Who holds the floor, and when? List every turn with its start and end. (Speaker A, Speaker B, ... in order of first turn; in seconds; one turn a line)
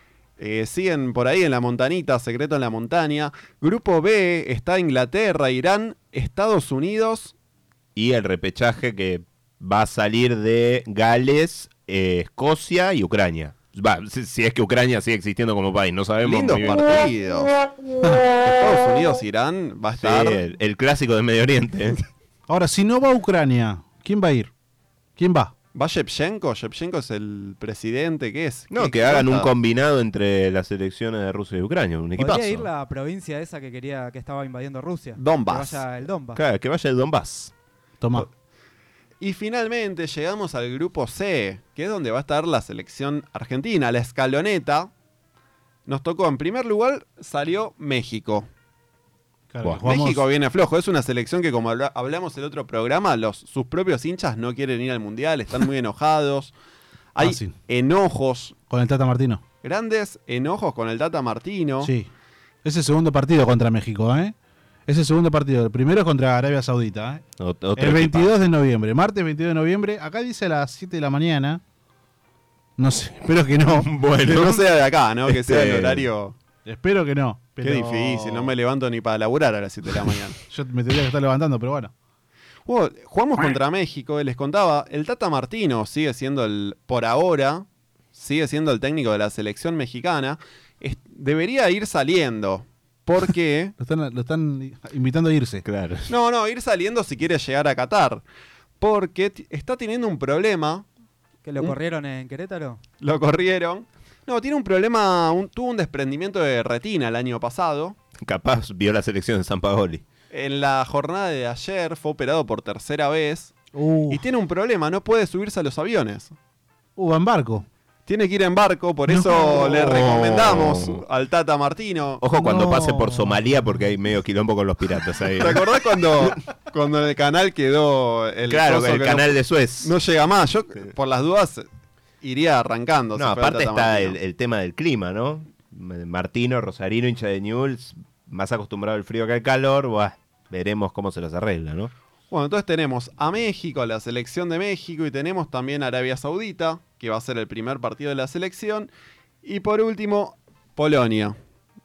Speaker A: 0.4-7.3
Speaker B: 7.9-17.0
Speaker A: 16.2-17.5
Speaker A: 18.4-20.4
Speaker B: 20.0-22.0
Speaker C: 22.5-24.5
Speaker C: 25.2-25.5
Speaker A: 25.7-29.5
Speaker B: 28.7-32.7
Speaker D: 32.2-36.4
Speaker A: 35.2-35.8
Speaker B: 36.3-37.5
Speaker C: 38.0-38.3
Speaker A: 39.2-44.9
Speaker A: 45.9-48.5
Speaker C: 49.5-50.2
Speaker A: 49.8-56.5
Speaker A: 57.1-58.6
Speaker C: 57.2-57.5
Speaker C: 58.7-59.4
Speaker A: 59.6-61.9
Speaker C: 61.8-62.1
Speaker C: 62.6-64.3
Speaker C: 64.9-67.2
Speaker B: 67.4-68.3
Speaker C: 67.8-71.6
Speaker C: 72.8-73.9
Speaker B: 73.7-74.6
Speaker A: 74.2-76.3
Speaker B: 75.3-76.1
Speaker C: 76.6-78.5
Speaker A: 77.6-80.4
Speaker C: 80.5-81.9
Speaker A: 82.7-93.7
Speaker C: 93.8-95.6
Speaker B: 95.6-96.1
Speaker A: 96.1-98.2
Speaker A: 98.8-100.8
Speaker D: 101.4-102.8
Speaker A: 103.0-108.0
Speaker B: 108.2-110.0
Speaker A: 110.3-113.6
Speaker C: 113.7-114.2
Speaker A: 114.1-116.3
Speaker C: 117.0-117.7
Speaker A: 118.1-122.2
Speaker C: 119.1-119.7
Speaker B: 119.5-121.0
Speaker B: 122.2-125.7
Speaker C: 122.3-123.8
Speaker A: 125.4-131.7
Speaker B: 128.5-129.9
Speaker A: 132.2-134.2
Speaker B: 133.2-141.9
Speaker A: 142.3-148.9
Speaker A: 149.4-151.4